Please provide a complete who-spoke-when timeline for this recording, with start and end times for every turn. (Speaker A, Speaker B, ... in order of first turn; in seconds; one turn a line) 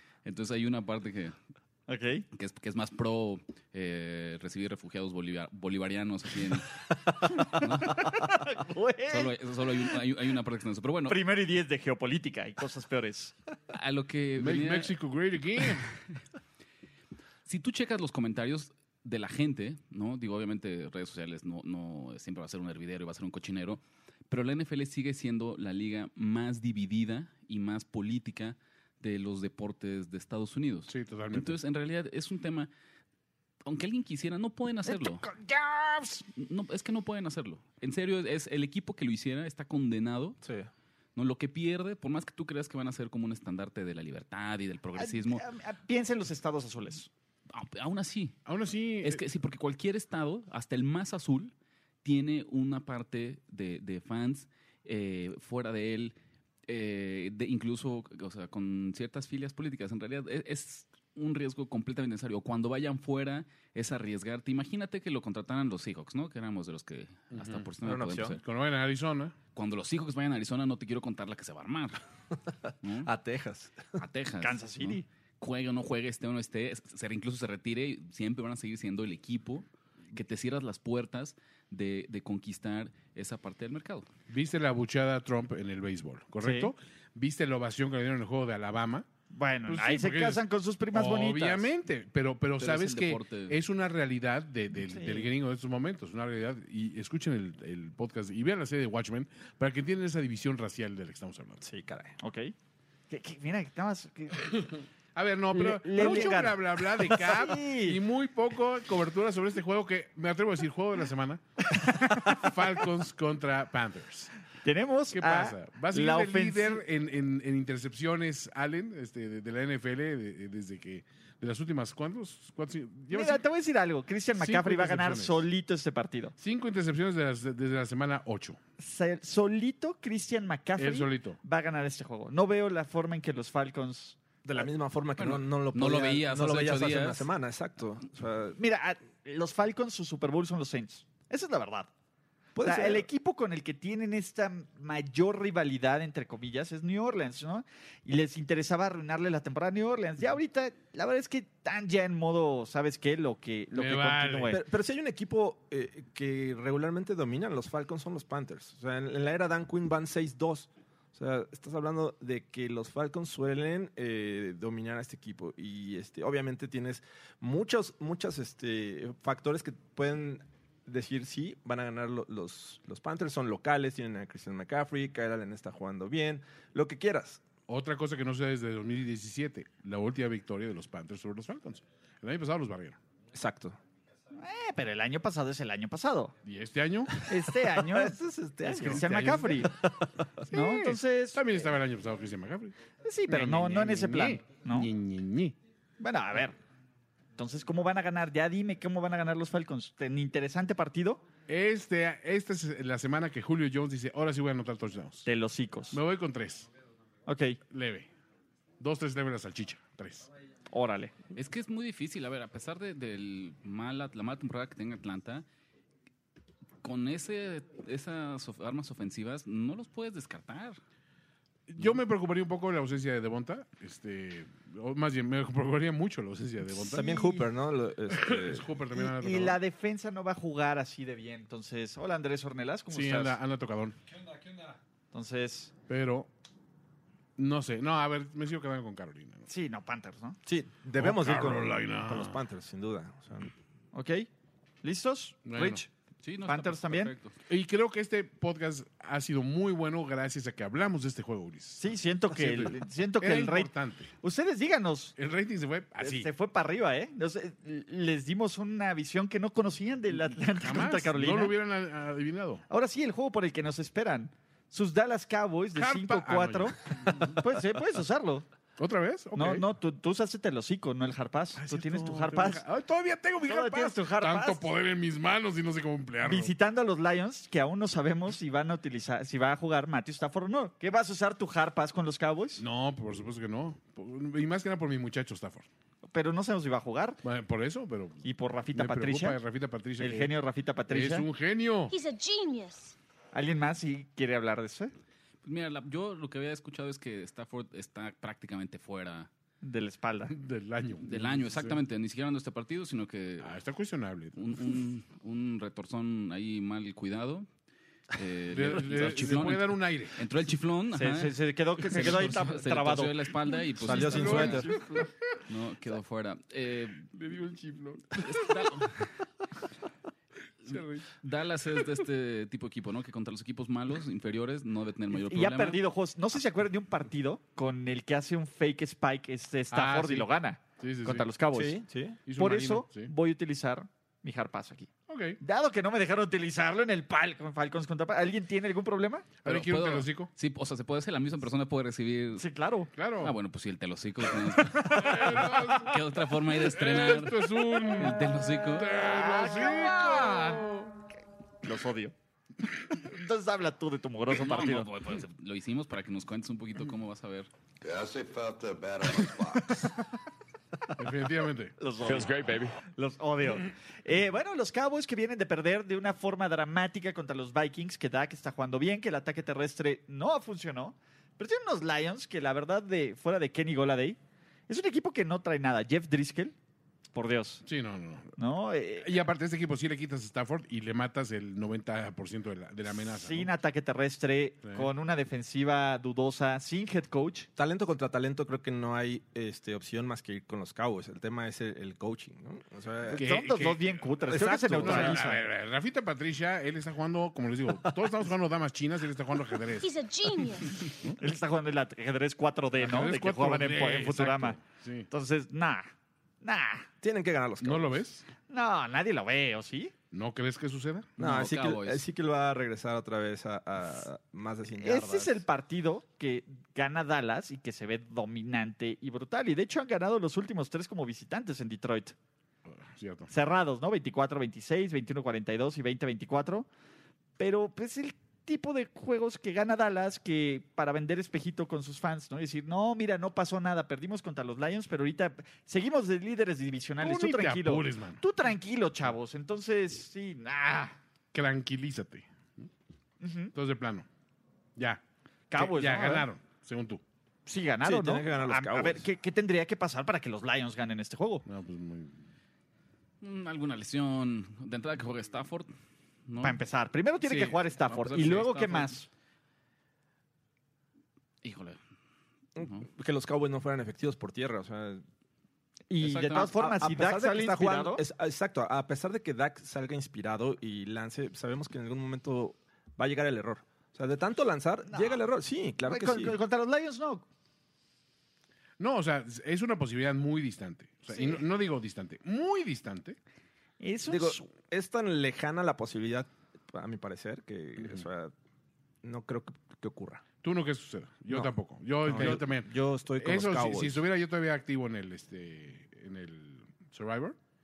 Speaker A: 0.2-1.3
Speaker B: 1.9-2.2
Speaker A: 2.3-8.2
Speaker B: 7.6-9.3
Speaker A: 9.1-11.2
Speaker B: 11.1-13.3
Speaker A: 13.7-14.9
Speaker C: 14.4-15.9
Speaker A: 17.4-32.7
Speaker C: 30.9-31.6
Speaker A: 33.6-35.2
Speaker B: 34.9-36.3
Speaker A: 36.3-40.4
Speaker D: 40.4-40.7
Speaker A: 41.1-45.4
Speaker B: 45.0-47.1
Speaker A: 47.5-48.4
Speaker C: 48.5-49.2
Speaker A: 49.0-51.5
Speaker A: 52.0-56.1
Speaker A: 56.7-68.4
Speaker C: 67.3-67.7
Speaker D: 67.8-68.4
Speaker C: 68.4-69.3
Speaker A: 69.5-72.0
Speaker A: 72.8-73.1
Speaker D: 73.0-73.9
Speaker A: 74.0-84.1
Speaker B: 74.4-75.0
Speaker C: 84.3-89.0
Speaker B: 86.4-86.7
Speaker B: 89.3-91.7
Speaker C: 89.7-101.6
Speaker A: 92.6-93.6
Speaker B: 94.8-95.3
Speaker D: 101.6-102.2
Speaker B: 102.2-102.5
Speaker B: 103.1-104.7
Speaker C: 105.1-114.3
Speaker B: 105.5-108.0
Speaker B: 111.8-112.5
Speaker B: 114.6-116.8
Speaker C: 115.1-123.4
Speaker B: 123.1-126.3
Speaker C: 124.4-125.4
Speaker C: 126.4-128.6
Speaker B: 128.8-134.2
Speaker C: 130.8-131.4
Speaker D: 134.4-138.6
Speaker A: 135.2-137.2
Speaker B: 138.6-141.9
Speaker D: 142.5-143.1
Speaker B: 142.6-154.6
Speaker C: 153.7-154.6
Speaker D: 154.5-177.4
Speaker C: 177.7-183.0
Speaker D: 183.3-183.8
Speaker B: 184.3-186.3
Speaker C: 186.4-187.1
Speaker B: 187.2-189.7
Speaker D: 187.4-189.0
Speaker C: 188.7-189.7
Speaker D: 189.8-190.3
Speaker C: 190.5-192.8
Speaker B: 190.5-191.4
Speaker B: 193.0-194.9
Speaker C: 193.3-195.6
Speaker B: 196.0-196.6
Speaker B: 197.3-201.2
Speaker C: 201.5-205.2
Speaker B: 205.2-206.0
Speaker C: 205.9-206.7
Speaker B: 207.2-207.6
Speaker C: 207.7-208.1
Speaker C: 208.8-210.3
Speaker B: 210.7-211.1
Speaker A: 211.3-215.4
Speaker A: 216.8-220.8
Speaker C: 221.7-227.0
Speaker B: 226.8-227.4
Speaker D: 226.8-228.7
Speaker C: 228.1-229.6
Speaker B: 228.9-233.4
Speaker C: 232.9-234.0
Speaker B: 235.1-235.7
Speaker C: 235.9-236.3
Speaker C: 237.4-239.4
Speaker B: 239.5-240.4
Speaker D: 240.4-243.5
Speaker C: 241.0-242.4
Speaker B: 243.9-244.3
Speaker B: 244.8-245.9
Speaker C: 245.4-245.8
Speaker A: 246.2-247.3
Speaker B: 246.4-247.1
Speaker C: 247.5-254.1
Speaker B: 251.8-253.7
Speaker B: 254.2-255.1
Speaker C: 255.2-256.3
Speaker B: 256.0-261.5
Speaker C: 260.2-262.6
Speaker B: 262.7-268.4
Speaker C: 265.8-267.4
Speaker C: 268.8-269.6
Speaker B: 269.4-272.6
Speaker C: 271.6-276.5
Speaker B: 273.5-274.6
Speaker B: 276.2-282.6
Speaker C: 282.6-285.7
Speaker B: 286.1-287.2
Speaker C: 287.2-290.3
Speaker B: 288.2-289.4
Speaker B: 290.0-291.2
Speaker C: 290.9-291.9
Speaker E: 291.9-292.9
Speaker B: 293.3-294.9
Speaker A: 295.4-299.3
Speaker B: 299.6-300.3
Speaker C: 300.3-301.8
Speaker A: 301.0-303.6
Speaker C: 303.4-304.8
Speaker A: 304.4-307.5
Speaker A: 308.1-314.8
Speaker C: 308.5-310.2
Speaker B: 310.9-313.3
Speaker D: 313.8-314.7
Speaker C: 313.9-315.1
Speaker A: 315.5-317.1
Speaker C: 317.1-318.6
Speaker A: 318.2-319.1
Speaker C: 320.6-321.1
Speaker A: 320.6-325.8
Speaker B: 325.1-331.8
Speaker C: 329.7-331.3
Speaker D: 331.5-332.2
Speaker C: 332.2-333.1
Speaker B: 332.3-339.3
Speaker C: 335.1-335.4
Speaker C: 339.4-340.3
Speaker A: 339.4-342.4
Speaker B: 342.4-342.9
Speaker C: 342.9-343.3
Speaker A: 343.2-345.2
Speaker B: 344.6-345.9
Speaker C: 344.9-350.9
Speaker A: 345.8-349.0
Speaker B: 349.0-350.7
Speaker B: 351.6-352.1
Speaker B: 353.0-354.9
Speaker A: 354.3-357.5
Speaker F: 357.8-359.9
Speaker C: 360.9-361.7
Speaker B: 361.8-374.2
Speaker F: 362.1-362.7
Speaker B: 374.7-376.5
Speaker B: 377.1-377.6
Speaker C: 377.6-378.3
Speaker B: 378.4-379.1
Speaker C: 379.0-383.5
Speaker B: 382.9-387.5
Speaker D: 387.6-393.3
Speaker B: 393.1-395.4
Speaker C: 393.2-399.9
Speaker D: 394.3-395.3
Speaker E: 399.8-400.8
Speaker B: 401.2-404.6
Speaker C: 402.8-405.1
Speaker B: 405.1-405.9
Speaker B: 406.4-406.9
Speaker D: 407.0-408.0
Speaker C: 407.6-408.2
Speaker B: 408.5-409.9
Speaker C: 410.1-411.1
Speaker D: 411.2-415.4
Speaker A: 411.2-412.0
Speaker B: 414.8-422.1
Speaker C: 422.8-423.3
Speaker B: 423.3-426.7
Speaker B: 427.4-441.0
Speaker C: 437.0-438.2
Speaker C: 441.3-442.6
Speaker B: 443.2-443.5
Speaker C: 443.5-444.1
Speaker C: 444.8-445.0
Speaker B: 445.5-446.3
Speaker C: 445.5-447.0
Speaker B: 447.4-451.4
Speaker D: 447.8-449.1
Speaker C: 451.4-452.2
Speaker A: 453.2-455.7
Speaker A: 456.3-456.6
Speaker B: 456.4-459.1
Speaker A: 457.2-459.0
Speaker A: 461.4-461.8
Speaker D: 462.6-465.0
Speaker A: 462.6-462.8
Speaker B: 465.9-468.0
Speaker A: 466.0-466.6
Speaker D: 466.4-476.4
Speaker B: 474.9-475.2
Speaker B: 475.8-477.2
Speaker C: 478.8-483.2
Speaker B: 483.8-484.5
Speaker D: 484.1-488.3
Speaker D: 489.0-490.2
Speaker C: 490.4-497.4
Speaker D: 492.0-494.0